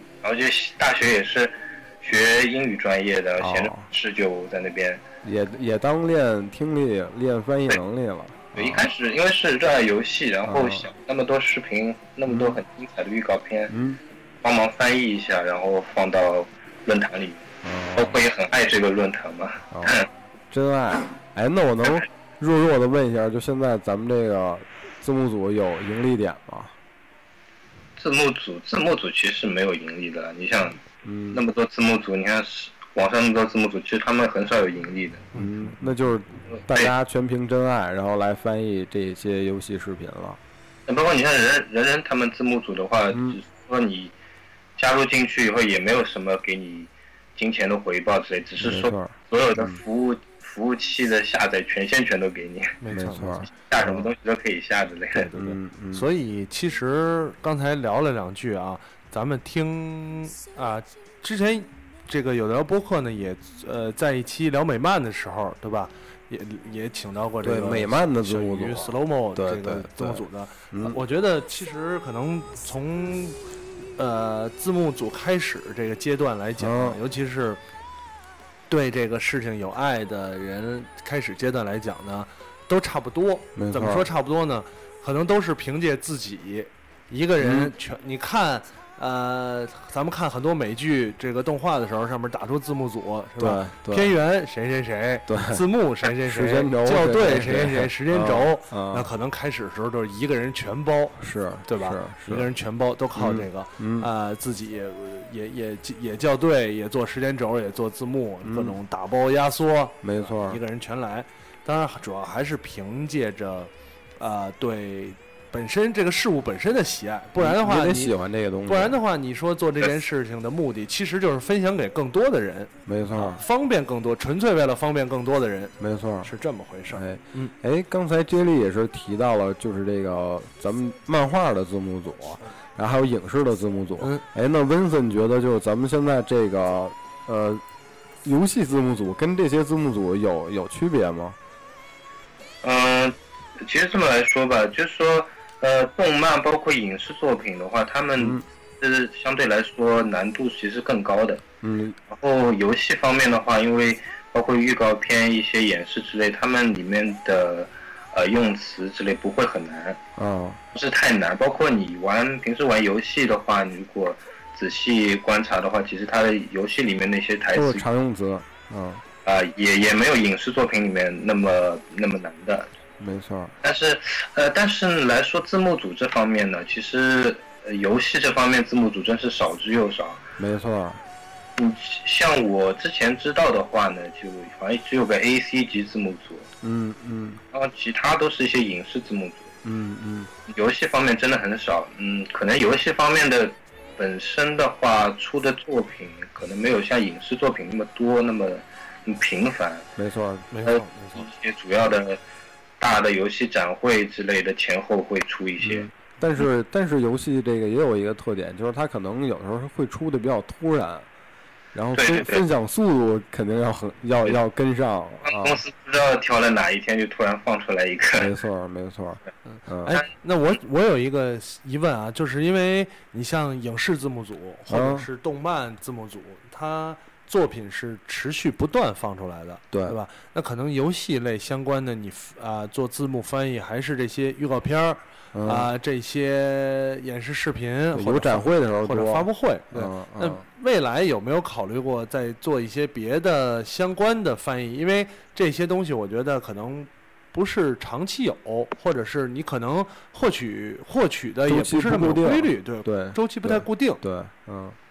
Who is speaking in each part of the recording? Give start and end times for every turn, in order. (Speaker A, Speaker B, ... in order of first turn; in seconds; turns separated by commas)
Speaker A: 0.2-5.0, Speaker B: 3.4-3.9, Speaker B: 5.2-8.9, Speaker A: 8.5-13.7, Speaker B: 10.4-10.9, Speaker B: 12.3-12.6, Speaker B: 13.7-14.0, Speaker A: 14.4-17.4, Speaker B: 17.6-18.2, Speaker A: 18.0-20.1, Speaker B: 19.7-20.0, Speaker B: 20.5-26.7, Speaker A: 28.0-35.3, Speaker B: 31.0-31.4, Speaker B: 35.4-40.4, Speaker A: 36.5-36.9, Speaker A: 40.9-44.1, Speaker B: 43.1-43.4, Speaker A: 44.8-52.8, Speaker B: 48.6-49.8, Speaker C: 52.8-53.5, Speaker B: 52.9-53.5, Speaker A: 53.5-55.3, Speaker C: 55.1-73.4, Speaker B: 55.3-56.1, Speaker B: 67.4-71.0, Speaker C: 74.0-77.6, Speaker B: 76.6-77.0, Speaker C: 78.7-118.1, Speaker B: 83.5-84.1, Speaker B: 87.4-87.7, Speaker B: 93.4-94.2, Speaker B: 95.3-99.1, Speaker B: 101.2-102.5, Speaker B: 103.2-104.1, Speaker B: 108.4-108.8, Speaker B: 110.0-110.6, Speaker B: 117.4-119.0, Speaker C: 118.7-127.5, Speaker B: 122.9-123.4, Speaker B: 125.8-126.3, Speaker B: 126.9-137.6, Speaker C: 134.0-134.2, Speaker B: 138.2-141.4, Speaker A: 142.6-151.4, Speaker B: 148.2-148.4, Speaker B: 151.6-152.0, Speaker A: 152.1-160.0, Speaker B: 160.2-160.6, Speaker A: 160.7-167.8, Speaker B: 167.5-169.0, Speaker A: 169.2-172.7, Speaker B: 173.0-173.5, Speaker A: 173.6-180.2, Speaker B: 180.4-181.0, Speaker A: 181.6-186.5, Speaker B: 186.6-187.4, Speaker A: 187.5-189.5, Speaker B: 189.6-190.3, Speaker A: 190.5-199.9, Speaker B: 200.0-200.5, Speaker C: 200.5-201.3, Speaker A: 200.7-202.2, Speaker A: 202.8-205.9, Speaker B: 205.6-211.1, Speaker B: 211.8-215.6, Speaker A: 211.9-212.4, Speaker A: 215.2-218.3, Speaker B: 218.2-220.0, Speaker C: 219.5-254.0, Speaker B: 224.7-225.1, Speaker B: 229.7-230.0, Speaker B: 235.3-235.7, Speaker B: 237.9-240.4, Speaker B: 251.4-254.8